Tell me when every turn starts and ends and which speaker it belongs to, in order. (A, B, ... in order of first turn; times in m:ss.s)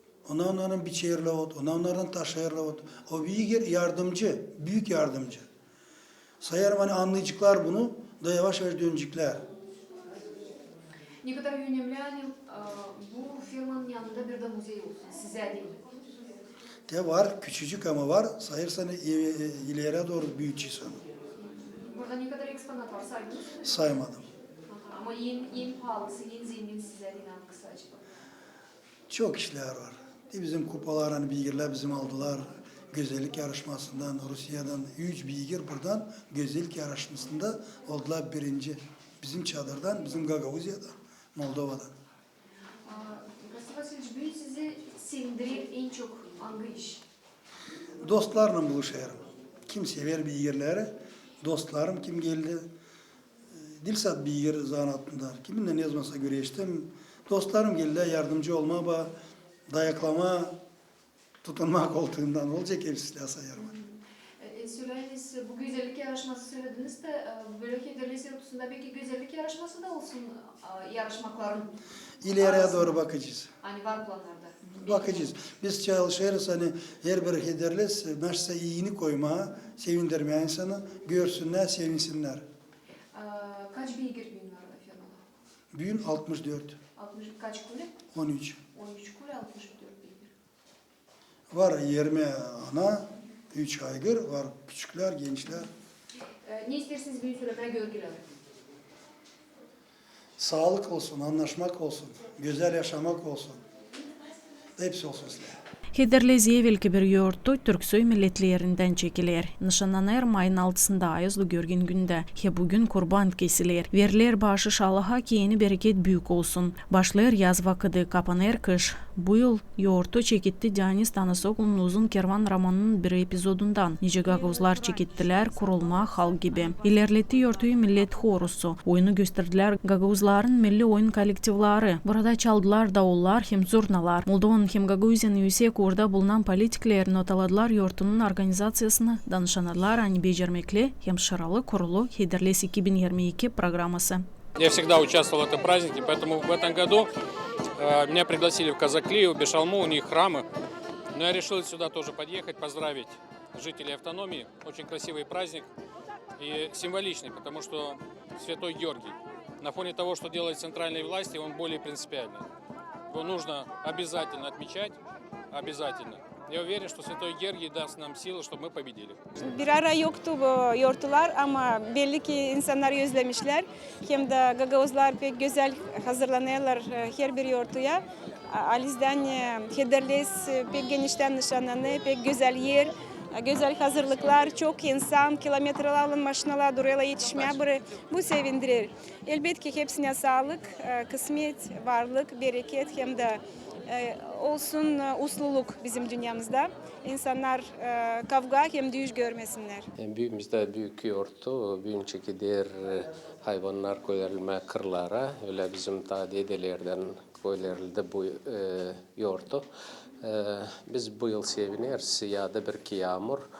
0:00.3-0:05.4 A
0:06.4-0:09.4 A
0:11.2-0:15.8 B
0:16.9-0:21.0 A
0:21.4-0:23.7 B
0:23.6-0:24.3 A
0:24.7-0:28.0 B
0:29.1-0:41.9 A
0:42.8-0:47.0 B
0:48.0-0:52.7 A
0:53.8-0:59.2 A
0:59.7-1:00.6 A
1:01.4-1:03.7 A
1:03.6-1:11.7 B
1:12.2-1:13.5 A
1:12.4-1:13.0 B
1:13.6-1:15.2 B
1:14.8-1:22.4 A
1:23.1-1:25.2 B
1:25.7-1:26.8 A
1:27.0-1:28.0 B
1:28.1-1:28.6 A
1:28.7-1:30.3 B
1:31.5-1:35.7 A
1:36.4-1:38.2 B
1:40.4-1:43.6 A
1:44.8-1:45.6 A
1:45.9-2:24.2 C
2:04.2-2:08.4 B
2:24.6-2:27.1 D
2:27.8-2:30.5 D
2:31.1-2:35.7 D
2:36.4-2:42.5 D
2:43.1-2:45.0 D
2:45.5-2:49.2 D
2:49.4-3:19.9 E
3:20.0-3:29.7 F
3:30.2-3:33.4 F